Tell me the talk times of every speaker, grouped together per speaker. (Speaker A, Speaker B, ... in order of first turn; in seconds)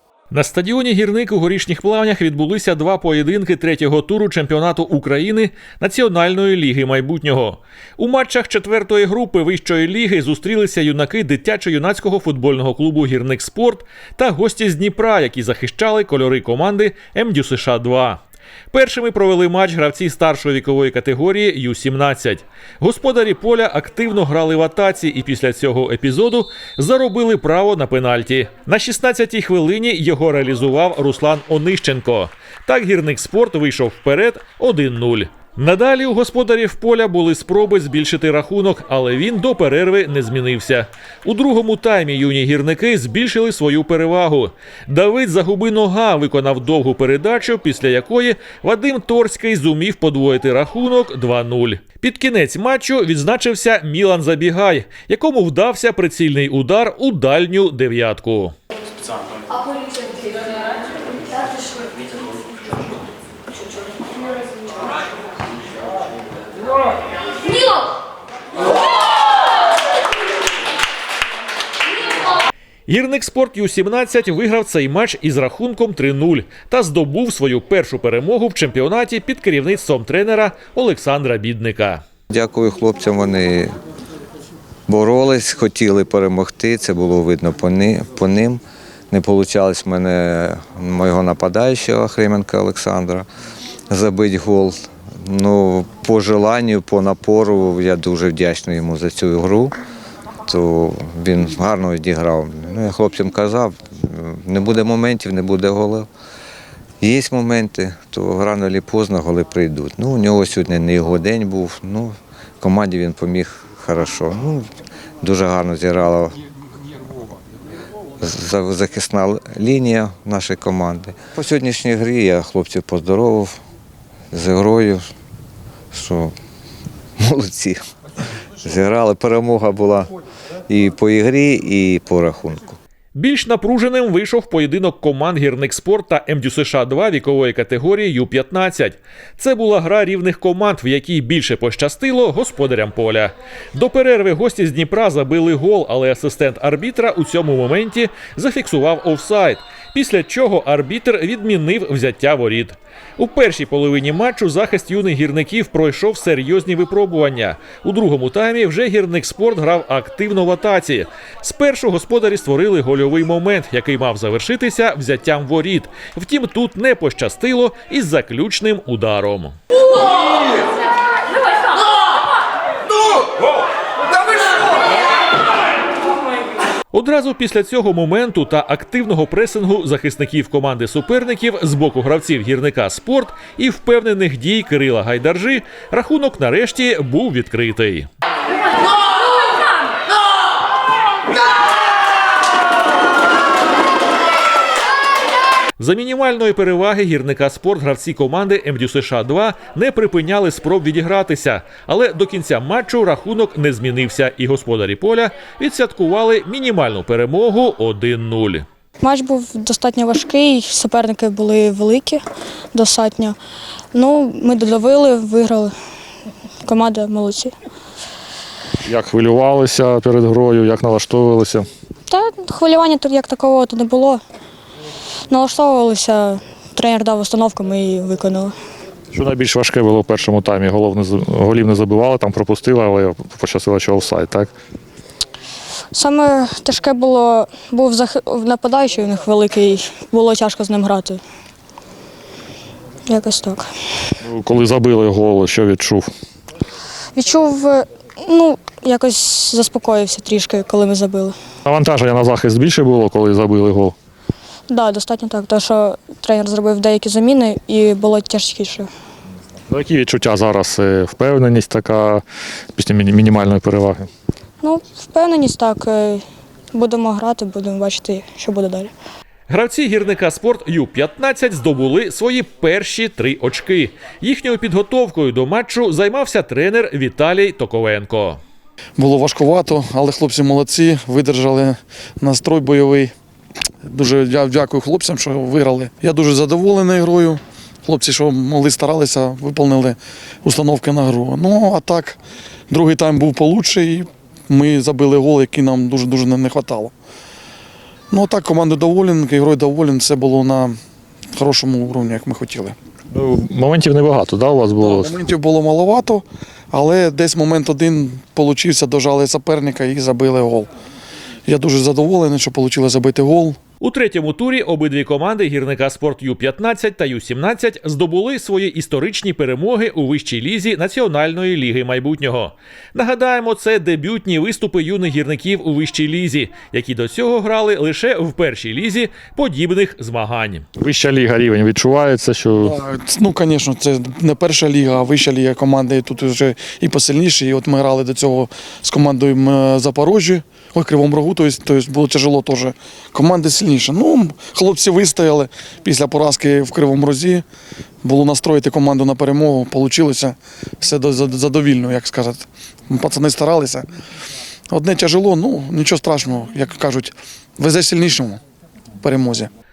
Speaker A: 0.3-18.2, 18.7-58.5, 72.9-82.0, 133.1-169.6, 176.9-188.1, 195.8-208.6, 269.5-278.4, 313.8-330.6
Speaker B: 82.3-83.7, 84.9-93.2, 93.9-99.8, 100.5-106.1, 107.0-114.7, 115.2-116.4, 118.2-123.6, 124.3-125.1, 125.9-126.3, 127.2-127.8, 128.6-130.1, 130.7-132.8
Speaker C: 209.0-212.2, 212.7-213.3, 213.9-215.7, 216.6-217.5, 222.1-224.2, 225.3-228.5, 235.9-241.2, 243.1-243.7, 247.1-251.3, 254.7-258.9, 264.6-268.9
Speaker D: 218.8-221.7, 229.1-234.5, 244.2-246.1, 251.6-253.9, 259.7-262.2, 262.8-264.1, 303.1-305.1, 330.8-332.8
Speaker E: 279.0-283.1, 283.8-292.2, 292.7-296.9, 298.1-300.8, 301.3-302.7, 304.8-310.7, 311.4-313.6, 332.6-347.4, 348.0-353.9, 354.7-358.4, 359.0-359.5